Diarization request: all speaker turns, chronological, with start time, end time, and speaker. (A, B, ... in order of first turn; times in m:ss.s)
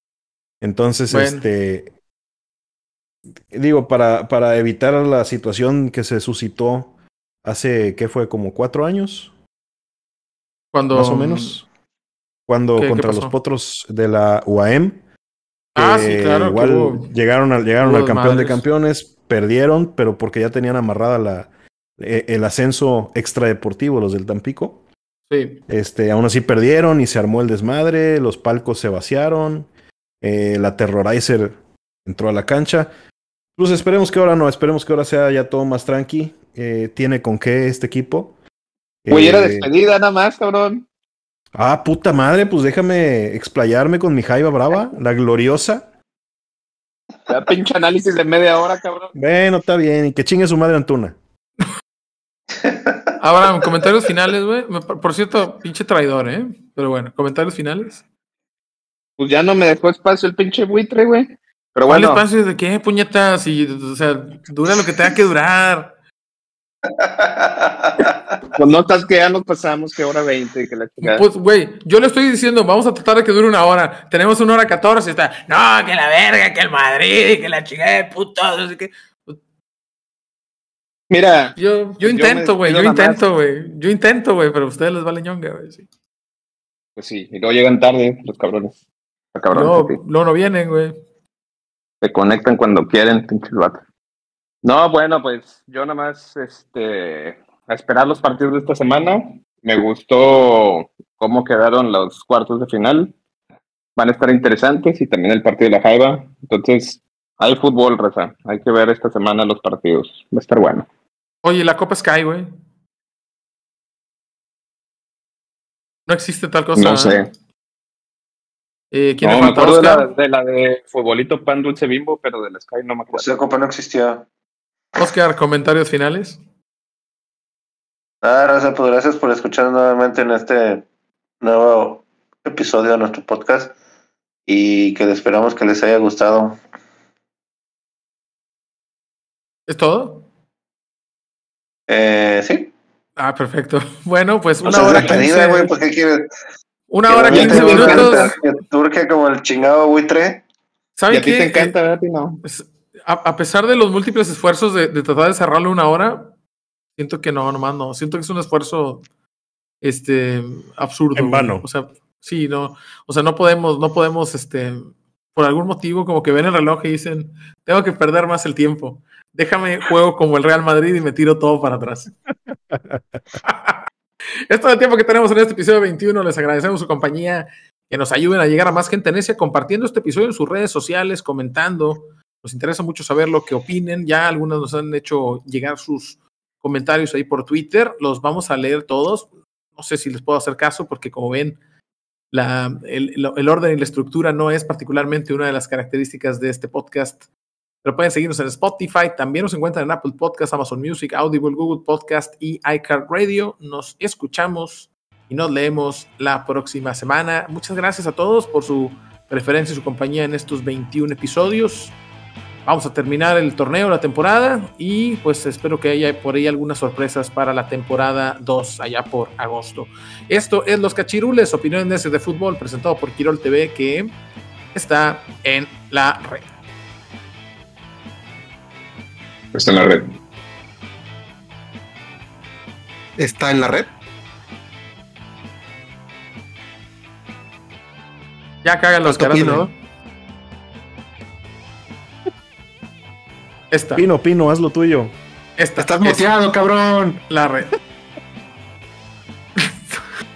0:00.6-0:01.9 A
0:01.1-0:01.4 B
0:03.5-0:06.9 A
0:07.4-0:09.3 A
0:10.7-0:11.6 B
0:10.9-0:11.6 A
0:12.5-0:15.0 A
0:12.7-0:13.3 B
0:15.7-0:24.8 A
0:15.8-0:17.1 B
0:17.8-0:18.6 B
0:25.3-0:25.6 B
0:25.7-0:29.7 A
0:30.2-0:32.9 A
0:33.6-0:38.3 A
0:39.0-0:39.7 A
0:39.1-0:40.8 C
0:41.5-0:45.8 A
0:47.3-0:49.1 C
0:49.1-0:51.2 A
0:53.2-0:58.0 B
0:59.2-1:02.2 C
1:01.9-1:05.9 B
1:07.0-1:08.1 D
1:08.5-1:11.2 C
1:11.0-1:19.4 B
1:21.1-1:23.2 C
1:21.6-1:25.8 B
1:27.0-1:28.7 C
1:29.3-1:30.0 C
1:29.5-1:30.9 B
1:32.0-1:33.8 C
1:34.6-1:43.1 C
1:44.0-1:50.9 C
1:51.4-1:52.5 B
1:56.1-1:57.2 B
1:56.8-1:57.3 C
1:58.9-2:00.1 B
1:59.2-2:03.3 C
2:03.1-2:04.2 D
2:05.0-2:06.4 B
2:08.2-2:10.8 D
2:11.4-2:13.7 D
2:14.5-2:16.6 D
2:19.7-2:20.2 B
2:21.9-2:22.7 D
2:23.2-2:25.7 B
2:24.6-2:26.3 D
2:26.9-2:28.3 B
2:27.1-2:30.4 D
2:27.3-2:28.3 C
2:31.0-2:31.8 B
2:31.1-2:32.4 C
2:32.4-2:36.3 B
2:37.0-2:39.0 B
2:39.8-2:52.1 B
2:41.2-2:41.6 A
2:52.7-2:53.0 A
2:53.4-2:53.8 B
2:54.5-3:11.6 B
3:12.3-3:17.2 B
3:17.8-3:31.9 B
3:32.6-3:44.1 B
3:44.7-3:46.4 B
3:49.5-3:50.1 C
3:53.2-3:53.9 E
3:58.6-3:59.7 B
3:59.0-3:59.7 E
4:03.7-4:04.0 B
4:04.0-4:05.1 A
4:05.6-4:06.3 B
4:05.8-4:07.2 E
4:07.3-4:07.7 B